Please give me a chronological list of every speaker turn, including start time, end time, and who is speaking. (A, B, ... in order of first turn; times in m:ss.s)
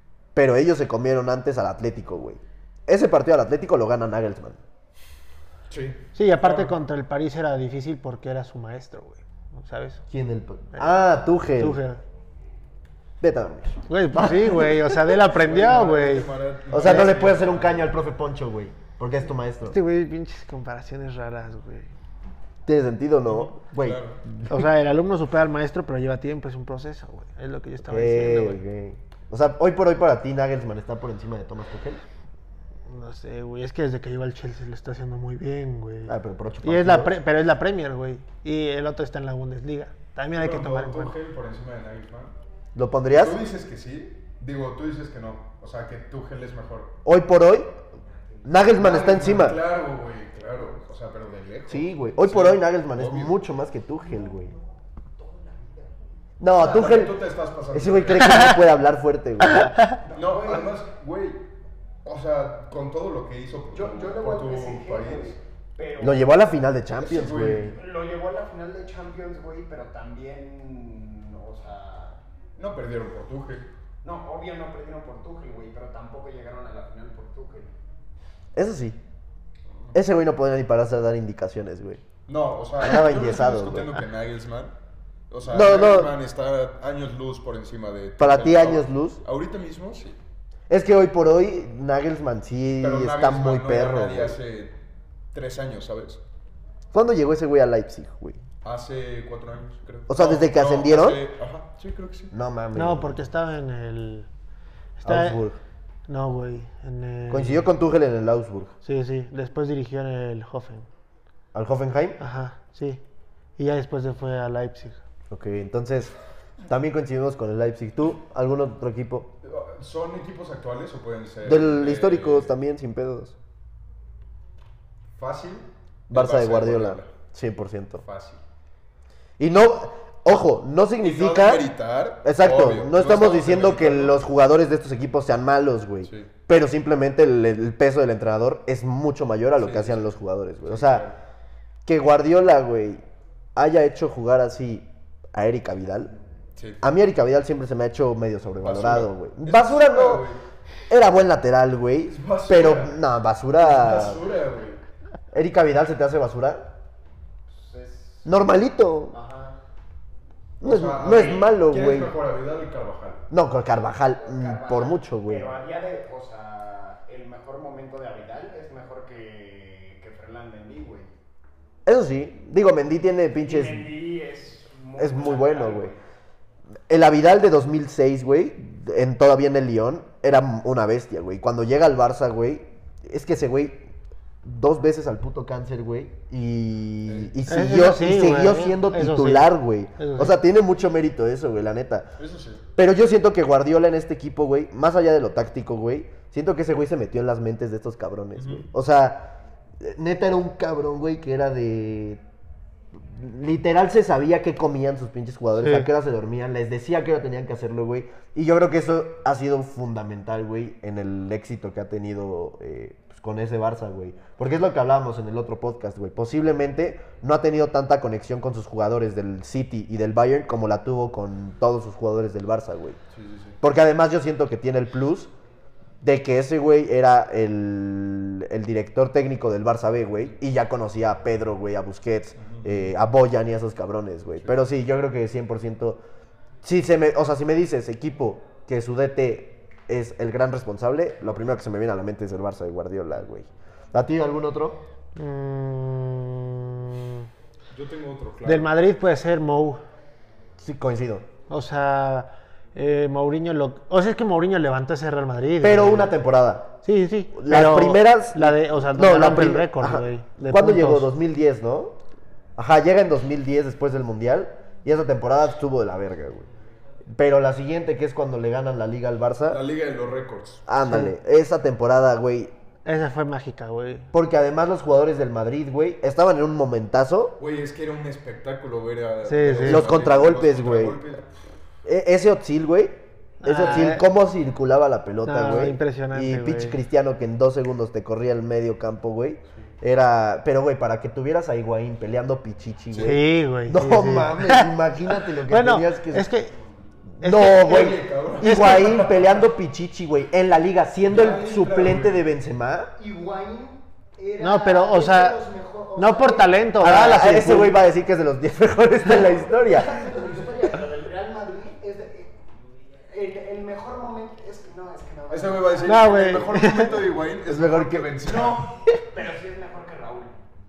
0:00.3-0:04.6 A
0:05.7-0:06.7 B
0:06.1-0:10.0 C
0:10.1-0:11.8 A
0:11.5-0:12.0 C
0:13.2-0:15.0 A
0:13.9-0:16.3 C
0:15.3-0:17.9 B
0:16.7-0:19.8 A
0:16.8-0:17.1 C
0:19.7-0:21.9 C
0:22.6-0:24.5 A
0:23.3-0:24.2 B
0:24.4-0:28.6 C
0:27.8-0:32.0 A
0:32.9-0:41.1 C
0:36.1-0:37.1 A
0:40.4-0:42.3 B
0:42.7-0:43.4 A
0:43.1-0:46.9 B
0:47.0-0:47.7 A
0:48.4-0:49.6 A
0:48.7-0:53.3 B
0:51.7-0:54.5 A
0:54.0-0:54.6 D
0:55.1-0:56.2 D
0:56.4-0:57.2 A
0:56.6-0:58.6 B
0:57.7-0:59.8 A
0:59.5-0:59.9 C
1:00.0-1:00.7 D
1:00.1-1:01.4 B
1:02.0-1:05.4 B
1:03.7-1:06.4 D
1:06.0-1:07.8 A
1:07.0-1:07.8 B
1:07.6-1:12.2 D
1:12.6-1:13.6 B
1:14.0-1:17.7 D
1:18.5-1:19.0 A
1:19.9-1:22.0 A
1:22.3-1:24.7 B
1:22.8-1:23.9 A
1:25.3-1:30.2 B
1:25.4-1:26.2 A
1:28.2-1:29.2 A
1:30.7-1:34.4 A
1:32.8-1:34.7 B
1:35.3-1:36.2 B
1:36.9-1:38.4 A
1:38.6-1:42.3 B
1:40.1-1:41.2 A
1:42.3-1:43.2 A
1:42.7-1:44.3 C
1:45.0-1:45.4 C
1:45.0-1:45.6 A
1:46.1-1:47.7 C
1:47.3-1:48.7 A
1:48.8-1:50.9 C
1:51.5-1:52.2 A
1:52.2-1:53.0 C
1:53.6-1:55.0 C
1:55.3-1:59.3 A
1:59.4-2:02.5 B
2:01.4-2:03.3 A
2:05.2-2:07.1 B
2:06.1-2:08.0 A
2:08.0-2:08.4 B
2:09.4-2:11.7 A
2:11.0-2:14.2 B
2:12.2-2:21.0 A
2:16.0-2:16.3 B
2:19.6-2:20.1 B
2:20.6-2:21.2 B
2:21.8-2:23.0 A
2:23.6-2:26.1 A
2:26.6-2:26.8 B
2:26.8-2:30.3 A
2:28.6-2:30.4 B
2:30.9-2:34.2 A
2:32.1-2:33.0 B
2:33.6-2:34.8 B
2:35.3-2:36.7 A
2:37.5-2:38.5 D
2:38.2-2:39.1 A
2:39.1-2:39.6 D
2:40.6-2:42.2 A
2:40.6-2:43.2 B
2:43.3-2:45.5 A
2:44.2-2:51.1 D
2:51.8-2:53.9 A
2:53.4-2:56.0 D
2:55.0-2:55.9 A
2:56.9-3:03.9 A
3:04.4-3:12.1 A
3:07.0-3:07.3 B
3:07.5-3:10.4 C
3:12.2-3:12.6 B
3:12.8-3:22.2 A
3:18.4-3:18.7 B
3:22.9-3:43.0 A
3:25.6-3:25.9 C
3:43.1-3:43.6 B
3:43.6-3:45.3 A
3:46.0-3:56.0 A
3:52.4-3:52.9 B
3:56.6-4:04.8 A
4:05.2-4:07.3 C
4:07.7-4:08.7 B
4:08.4-4:09.8 C
4:10.6-4:11.3 A
4:11.5-4:16.1 C
4:15.6-4:16.8 A
4:16.8-4:21.1 C
4:17.3-4:22.0 A
4:22.6-4:26.5 A
4:27.1-4:29.6 A
4:29.5-4:30.6 B
4:30.6-4:32.5 A
4:30.8-4:31.1 C
4:32.8-4:34.1 C
4:34.1-4:37.4 A
4:37.4-4:41.2 B
4:39.2-4:39.9 C
4:39.6-4:41.0 A
4:41.8-4:56.3 A
4:43.4-4:44.0 C
4:45.2-4:46.8 C
4:52.9-4:53.2 B
4:53.0-4:56.5 C
4:57.2-5:02.9 A
4:57.2-4:59.0 C
4:57.4-4:59.4 B
5:01.1-5:02.2 B
5:03.0-5:07.0 D
5:04.4-5:05.4 C
5:06.0-5:07.8 C
5:06.8-5:10.1 A
5:09.7-5:12.4 D
5:13.1-5:17.1 D
5:15.3-5:18.7 B
5:15.8-5:17.0 C
5:17.5-5:18.2 A
5:18.2-5:20.4 D